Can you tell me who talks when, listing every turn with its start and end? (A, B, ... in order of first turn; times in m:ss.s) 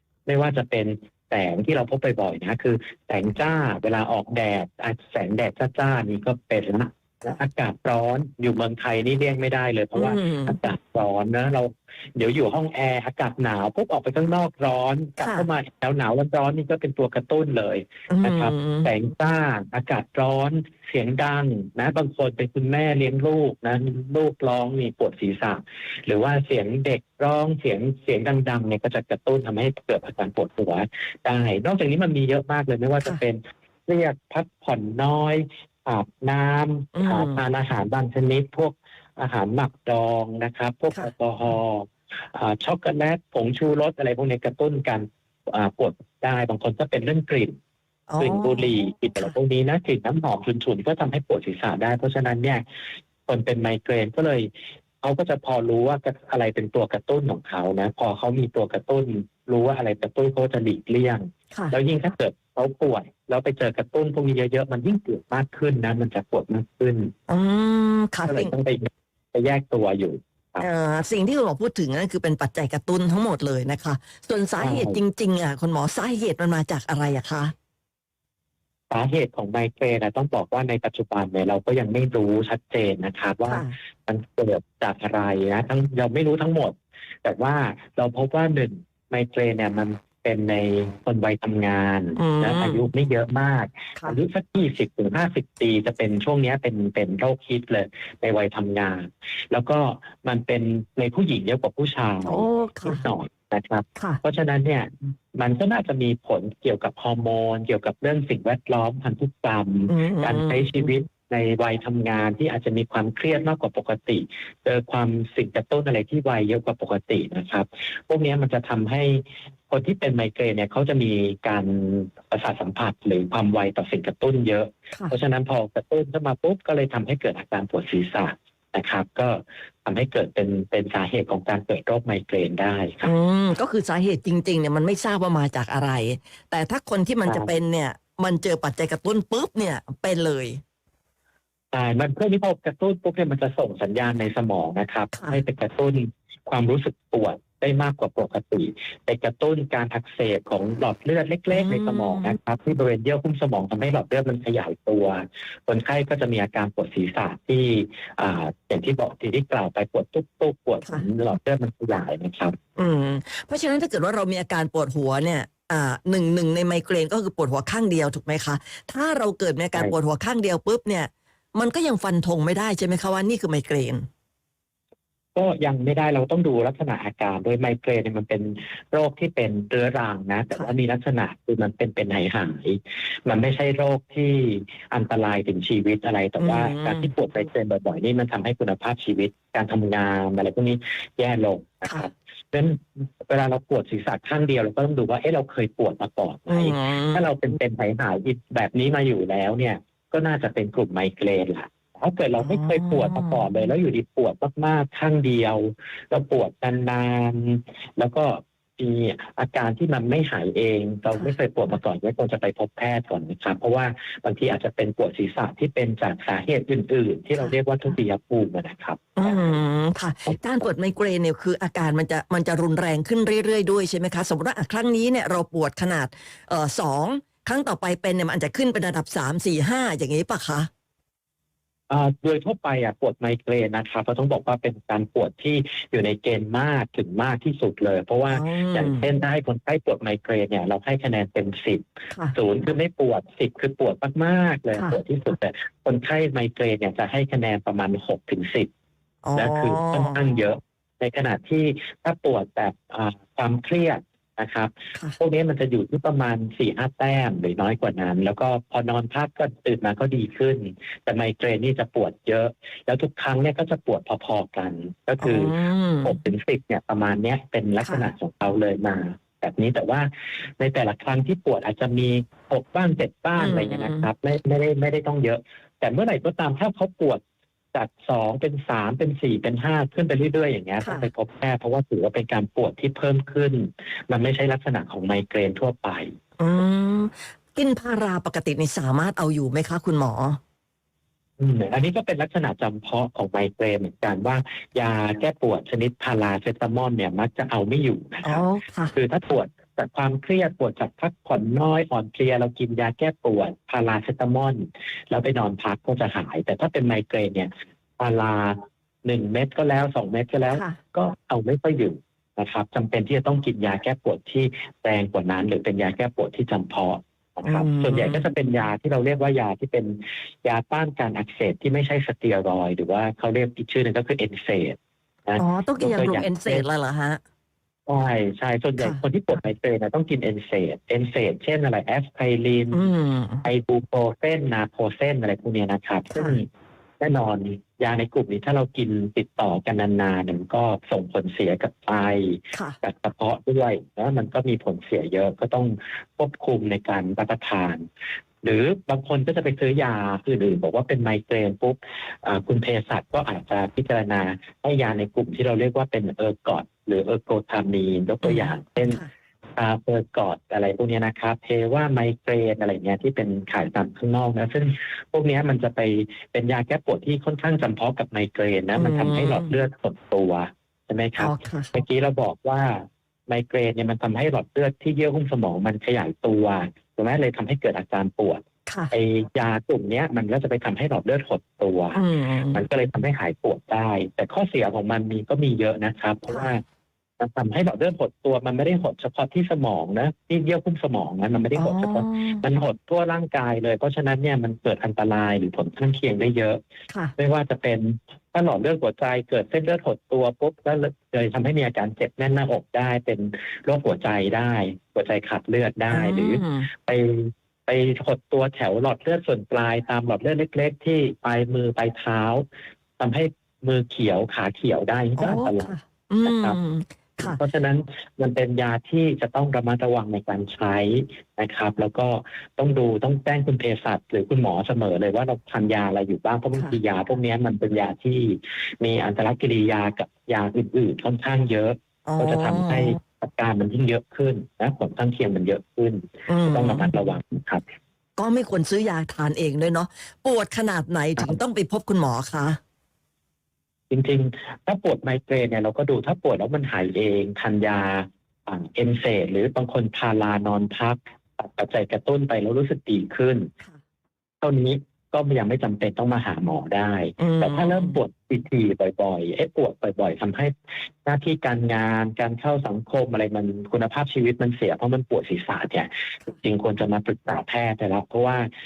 0:00.3-0:47.6 A
0:09.9-0:10.6 B
0:15.2-0:15.4 B
0:18.1-0:18.9 B
0:36.9-0:37.4 B
0:48.1-0:49.3 B
0:48.2-0:52.6 A
0:53.3-1:07.1 A
1:07.3-1:08.5 B
1:08.2-1:10.7 A
1:10.6-1:17.5 B
1:14.6-1:15.0 A
1:18.9-2:13.1 A
1:23.4-1:23.7 B
1:32.2-1:32.8 B
1:42.3-1:43.0 B
1:49.9-1:50.9 B
2:04.9-2:05.2 B
2:13.0-2:20.6 B
2:17.2-2:17.5 A
2:21.7-2:42.6 A
2:31.5-2:32.3 B
2:42.8-2:54.1 B
2:55.3-3:39.6 A
3:06.4-3:07.1 B
3:16.5-3:17.2 B
3:22.4-3:23.4 B
3:39.2-3:50.7 B
3:51.9-4:08.7 A
3:58.3-3:59.0 B
4:09.2-4:10.2 B
4:09.4-4:37.2 A
4:25.2-4:26.2 B
4:27.8-4:28.1 B
4:33.4-4:34.1 B
4:37.7-4:46.2 A
4:40.8-4:41.1 B
4:46.4-4:50.4 B
4:51.4-5:26.6 A
4:58.2-4:58.9 B
5:10.5-5:10.8 B
5:17.4-5:18.2 B
5:25.4-5:27.2 B
5:27.9-5:32.9 A
5:32.7-5:33.4 B
5:33.4-5:36.5 A
5:36.1-5:36.4 B
5:37.0-5:47.8 A
5:48.4-5:59.0 A
5:58.2-5:59.1 B
5:59.6-6:22.0 A
6:08.8-6:09.5 B
6:11.2-6:11.7 B
6:18.7-6:18.9 B
6:21.9-6:22.6 B
6:22.5-6:26.6 A
6:26.3-6:26.5 B
6:27.2-6:36.6 A
6:31.6-6:32.4 B
6:37.2-6:52.4 A
6:45.9-6:46.7 B
6:53.0-6:56.6 A
6:55.2-6:57.4 B
6:57.2-7:17.6 A
7:12.0-7:13.0 B
7:16.3-7:16.9 B
7:18.2-7:22.6 B
7:23.9-7:33.5 A
7:34.4-7:48.5 A
7:37.2-7:38.0 B